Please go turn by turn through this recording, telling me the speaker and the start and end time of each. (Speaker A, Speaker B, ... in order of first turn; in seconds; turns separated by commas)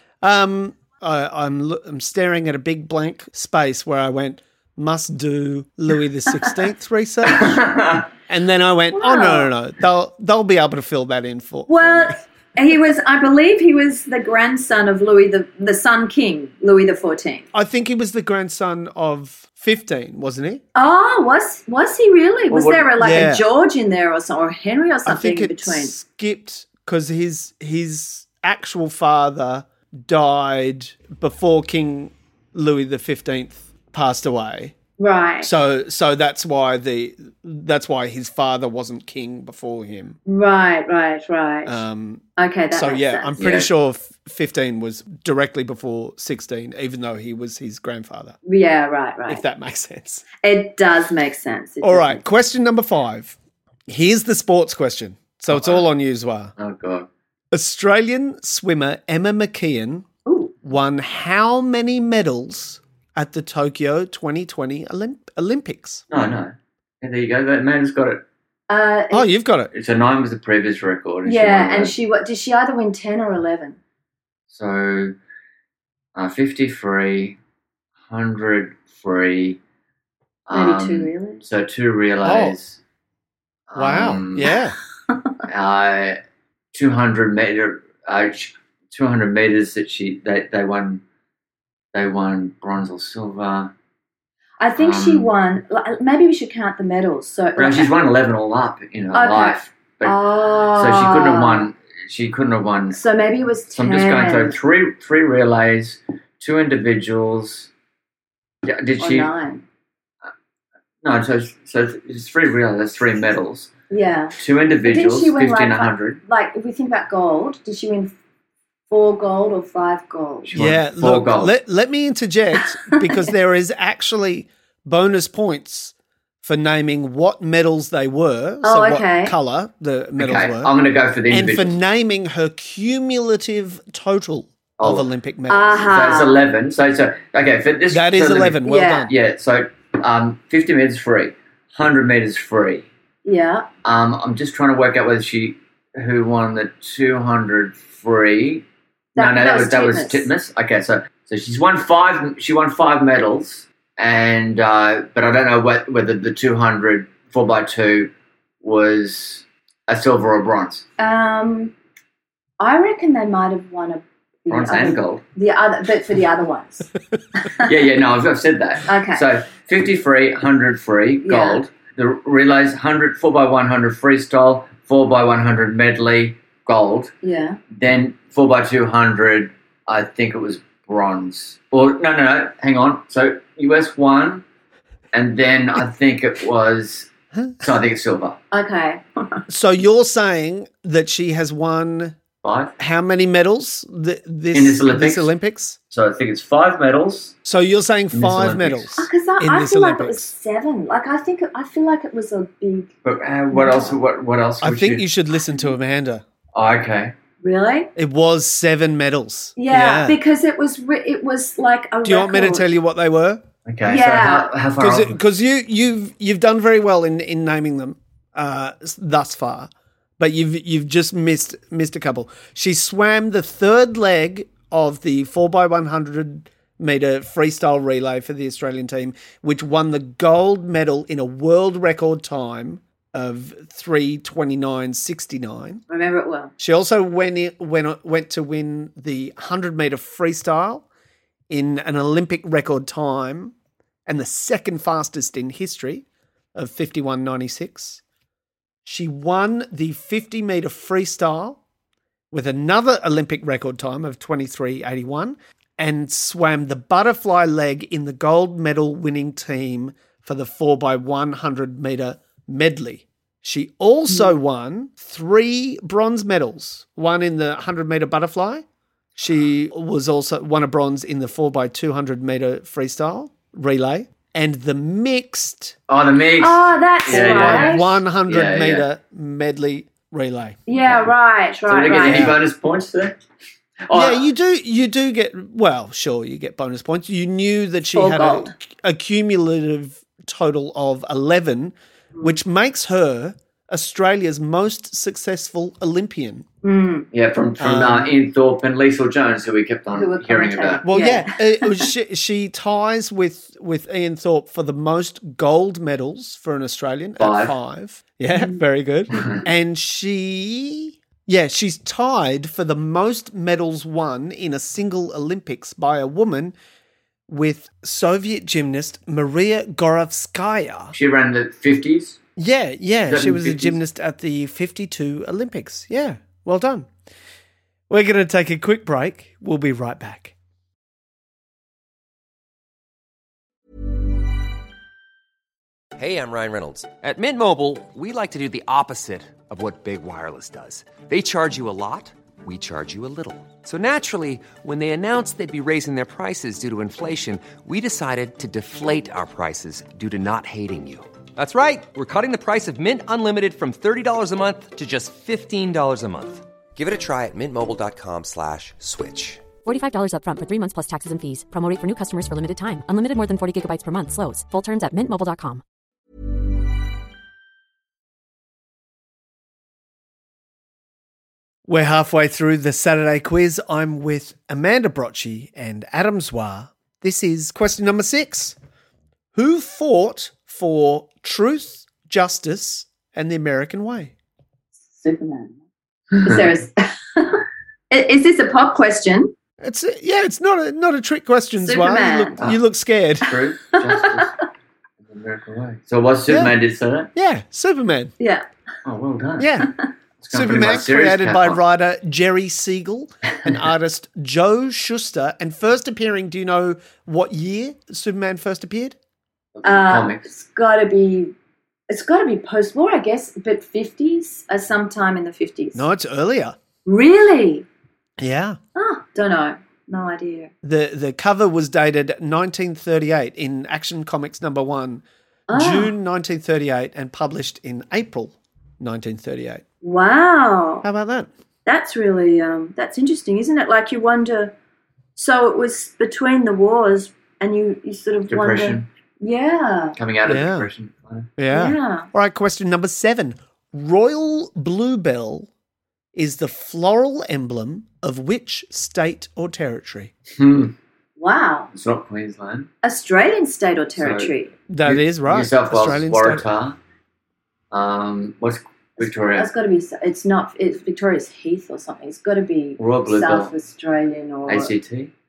Speaker A: 0.2-7.6, Speaker B: 7.3-8.0, Speaker A: 8.3-12.2, Speaker C: 8.9-9.5, Speaker C: 11.7-17.5, Speaker A: 17.5-20.6, Speaker C: 20.7-25.9, Speaker B: 22.5-22.9, Speaker A: 23.0-23.4, Speaker A: 25.1-34.8, Speaker C: 35.0-35.5, Speaker A: 35.4-40.2, Speaker C: 40.3-41.8, Speaker A: 41.6-48.4, Speaker C: 42.4-43.3, Speaker B: 43.4-43.7, Speaker C: 48.4-49.4, Speaker A: 49.3-50.2, Speaker C: 50.4-52.2, Speaker A: 51.8-53.3, Speaker A: 53.9-56.5, Speaker B: 55.5-55.9, Speaker B: 56.6-57.1, Speaker A: 57.5-60.0, Speaker C: 60.2-60.5, Speaker A: 60.6-66.0, Speaker B: 66.1-68.2, Speaker C: 68.7-69.3, Speaker A: 69.1-69.7, Speaker B: 69.7-71.9, Speaker C: 71.2-73.8, Speaker B: 74.5-75.1, Speaker B: 76.2-77.4, Speaker B: 78.1-79.6, Speaker B: 80.5-82.8, Speaker C: 80.5-81.4, Speaker A: 82.2-82.5, Speaker B: 83.7-84.5, Speaker A: 83.8-84.8, Speaker B: 85.5-86.2, Speaker B: 86.7-91.0, Speaker B: 91.9-93.7, Speaker C: 94.6-97.9, Speaker B: 94.8-95.3, Speaker B: 97.6-100.2, Speaker C: 99.1-101.7, Speaker B: 100.7-103.0, Speaker C: 102.9-104.5, Speaker B: 103.7-107.7, Speaker B: 108.7-109.3, Speaker C: 109.0-109.6, Speaker B: 111.0-113.7, Speaker C: 113.9-118.1, Speaker B: 114.3-116.2, Speaker C: 118.9-120.5, Speaker B: 120.4-121.5, Speaker A: 120.5-130.7, Speaker C: 128.6-129.3, Speaker B: 130.2-131.8, Speaker A: 131.3-135.9, Speaker B: 134.8-135.1, Speaker C: 135.5-136.4, Speaker B: 135.8-142.9, Speaker A: 137.9-139.1, Speaker C: 138.7-139.1, Speaker C: 143.2-143.7, Speaker B: 143.8-148.6, Speaker C: 149.2-150.3, Speaker B: 149.2-160.8, Speaker C: 161.0-161.7, Speaker C: 162.6-166.9, Speaker B: 164.5-165.2, Speaker C: 167.4-167.6, Speaker B: 167.6-177.1, Speaker C: 168.9-169.2, Speaker C: 171.2-171.6, Speaker C: 177.2-177.6, Speaker B: 177.7-184.4, Speaker B: 185.1-187.1, Speaker A: 187.3-187.6, Speaker B: 187.6-188.4, Speaker C: 188.5-189.4, Speaker A: 189.5-192.2, Speaker B: 192.4-192.7, Speaker A: 192.8-195.8, Speaker B: 194.5-195.3, Speaker B: 195.9-197.3, Speaker A: 197.4-200.3, Speaker B: 198.1-198.8, Speaker C: 199.0-202.9, Speaker B: 203.0-205.0, Speaker C: 203.5-203.9, Speaker A: 204.6-206.2, Speaker B: 206.5-207.1, Speaker C: 207.4-207.9, Speaker A: 207.9-210.2, Speaker C: 209.6-212.7, Speaker A: 212.0-213.4, Speaker B: 213.7-215.2, Speaker C: 213.8-214.5, Speaker A: 214.8-235.8, Speaker C: 235.9-236.5, Speaker A: 236.6-240.8, Speaker A: 241.5-243.5, Speaker A: 244.1-248.0, Speaker A: 248.8-251.6, Speaker A: 252.3-268.6, Speaker A: 269.1-275.8, Speaker B: 275.9-278.8, Speaker C: 276.4-277.9, Speaker A: 277.1-280.7, Speaker C: 280.7-282.3, Speaker B: 281.7-283.2, Speaker A: 282.0-282.4, Speaker B: 283.9-284.2, Speaker A: 283.9-296.4, Speaker C: 287.9-288.5, Speaker C: 296.6-297.1, Speaker B: 297.1-300.8, Speaker A: 297.6-298.1, Speaker C: 299.9-301.9, Speaker A: 300.8-316.5, Speaker B: 307.2-307.5, Speaker C: 308.3-308.6, Speaker B: 309.1-309.4, Speaker A: 317.3-320.9, Speaker B: 320.9-322.2, Speaker A: 322.4-326.9, Speaker B: 323.1-323.8, Speaker A: 327.9-330.3, Speaker D: 336.0-359.5, Speaker E: 359.6-365.6, Speaker A: 371.7-378.6, Speaker A: 379.3-384.1, Speaker C: 384.9-385.6, Speaker C: 386.1-389.3, Speaker A: 389.6-393.3, Speaker C: 391.6-392.4, Speaker B: 393.2-394.4, Speaker C: 394.0-394.2, Speaker B: 395.0-397.1, Speaker A: 396.3-396.5, Speaker A: 397.1-398.1, Speaker C: 398.2-398.4, Speaker B: 398.8-399.5, Speaker A: 399.4-399.7, Speaker B: 400.2-401.6, Speaker A: 400.3-408.9, Speaker B: 409.5-410.2, Speaker C: 409.6-411.3, Speaker C: 411.9-415.9, Speaker A: 415.7-416.6, Speaker C: 416.9-417.6, Speaker A: 418.2-418.6, Speaker C: 418.8-420.5, Speaker A: 420.6-429.6, Speaker C: 425.5-425.9, Speaker C: 429.8-430.8, Speaker A: 430.8-431.3, Speaker C: 431.6-434.5, Speaker C: 435.1-439.9, Speaker B: 438.3-438.9, Speaker B: 439.9-441.3, Speaker A: 440.2-440.7, Speaker A: 441.4-445.5, Speaker C: 441.5-442.1, Speaker A: 446.1-450.1, Speaker B: 450.3-450.7, Speaker C: 451.2-451.7, Speaker B: 451.7-452.7, Speaker C: 452.8-454.5, Speaker B: 454.0-454.3, Speaker A: 454.7-456.4, Speaker B: 454.8-456.8, Speaker B: 457.7-459.5, Speaker C: 459.0-464.7, Speaker B: 462.8-463.5, Speaker B: 464.5-465.1